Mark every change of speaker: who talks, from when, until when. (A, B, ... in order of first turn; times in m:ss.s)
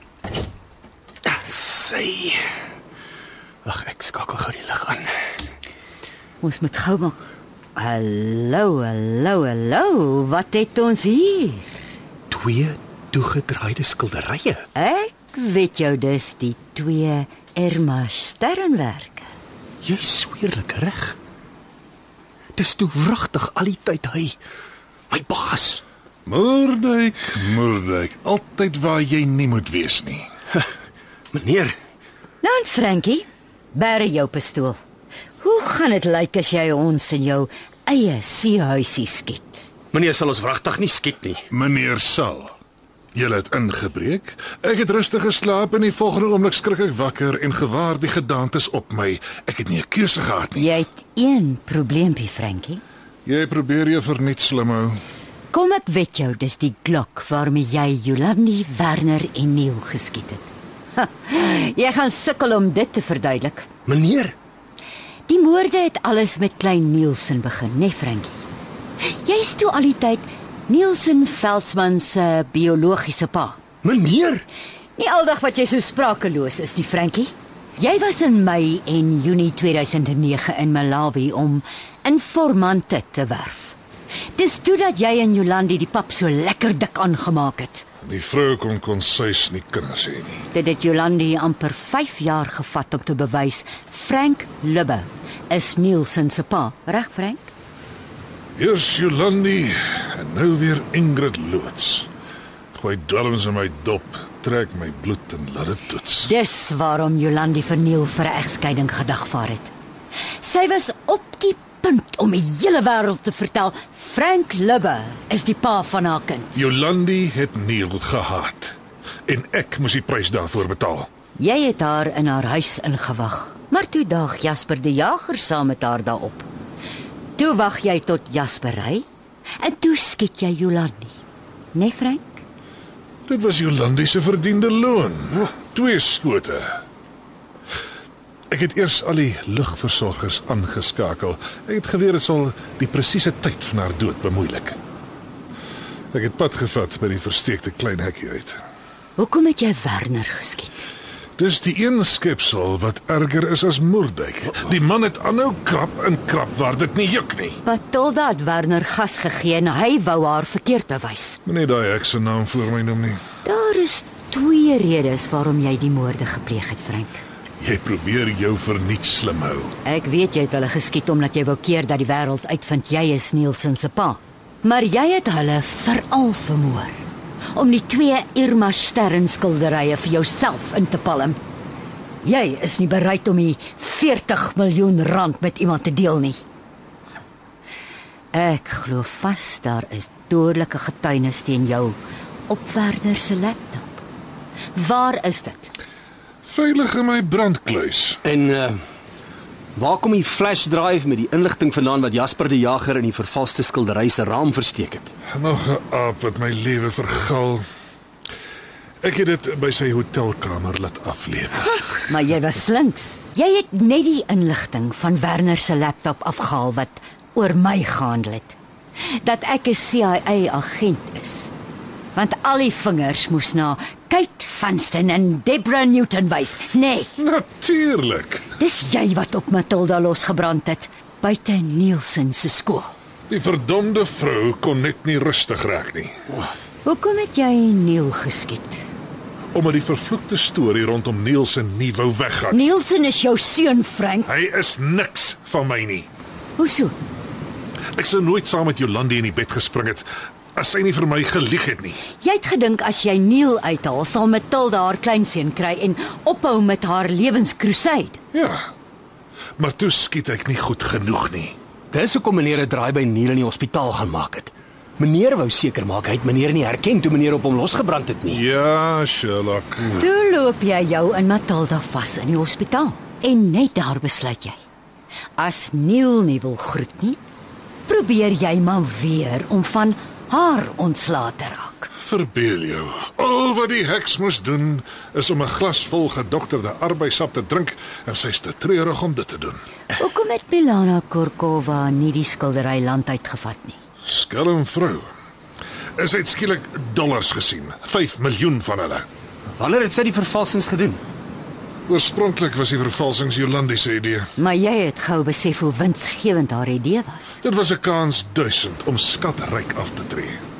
0:01.2-0:02.4 A
0:03.6-0:05.1 A
0:06.4-0:07.2 B
0:07.8-0:11.7 B
0:12.3-0:14.6 A
0:14.7-0:19.3 B
0:19.8-0:21.2 A
0:22.6-0:24.3 A
0:25.1-0:25.8 A
0:26.2-0:30.3 C
0:31.3-0:31.7 A
0:32.4-0:34.8 B
0:35.4-0:39.7 B
0:39.9-0:41.4 A
0:41.5-0:42.5 C
0:43.1-0:50.7 C
0:50.6-0:52.8 B
0:53.2-0:55.0 C
0:55.5-1:03.7 B
1:03.9-1:04.3 A
1:05.3-1:08.4 B
1:09.1-1:13.6 B
1:13.8-1:14.4 A
1:15.0-1:23.8 B
1:24.4-1:27.8 B
1:28.0-1:30.4 C
1:30.5-1:37.5 B
1:38.6-1:42.1 C
1:42.7-1:46.3 C
1:46.2-1:49.7 B
1:50.4-1:56.6 B
1:56.5-2:01.1 C
2:01.4-2:06.5 B
2:07.4-2:09.0 B
2:09.6-2:11.1 B
2:11.7-2:12.4 B
2:13.2-2:16.8 C
2:18.5-2:24.8 C
2:26.1-2:28.6 C
2:29.2-2:30.7 B
2:31.4-2:37.6 C
2:37.6-2:41.4 B
2:41.4-2:43.2 C
2:43.4-2:47.2 B
2:47.6-2:49.8 C
2:49.8-3:01.4 B
3:02.2-3:06.4 B
3:08.3-3:14.0 B
3:14.7-3:15.7 B
3:16.4-3:18.2 C
3:18.2-3:18.8 A
3:19.8-3:25.1 A
3:25.3-3:27.6 C
3:29.0-3:31.8 C
3:32.1-3:38.6 B
3:39.1-3:41.5 B
3:42.1-3:47.1 B
3:47.2-3:48.5 C
3:48.6-3:53.0 B
3:53.3-3:56.1 C
3:56.8-3:58.8 B
3:59.5-4:02.6 C
4:02.5-4:04.3 B
4:04.2-4:06.1 C
4:06.6-4:06.9 B
4:07.9-4:12.0 C
4:12.2-4:18.2 B
4:18.3-4:18.7 C
4:19.6-4:21.6 C
4:21.9-4:28.4 A
4:28.3-4:30.0 C
4:29.9-4:34.6 B
4:35.4-4:37.2 B
4:37.9-4:41.9 B
4:42.0-4:49.6 C
4:49.9-4:53.8 B
4:54.0-4:55.1 C
4:56.0-4:59.1 C
4:59.6-5:01.0 A
5:01.9-5:04.3 C
5:04.4-5:07.4 B
5:07.4-5:10.4 C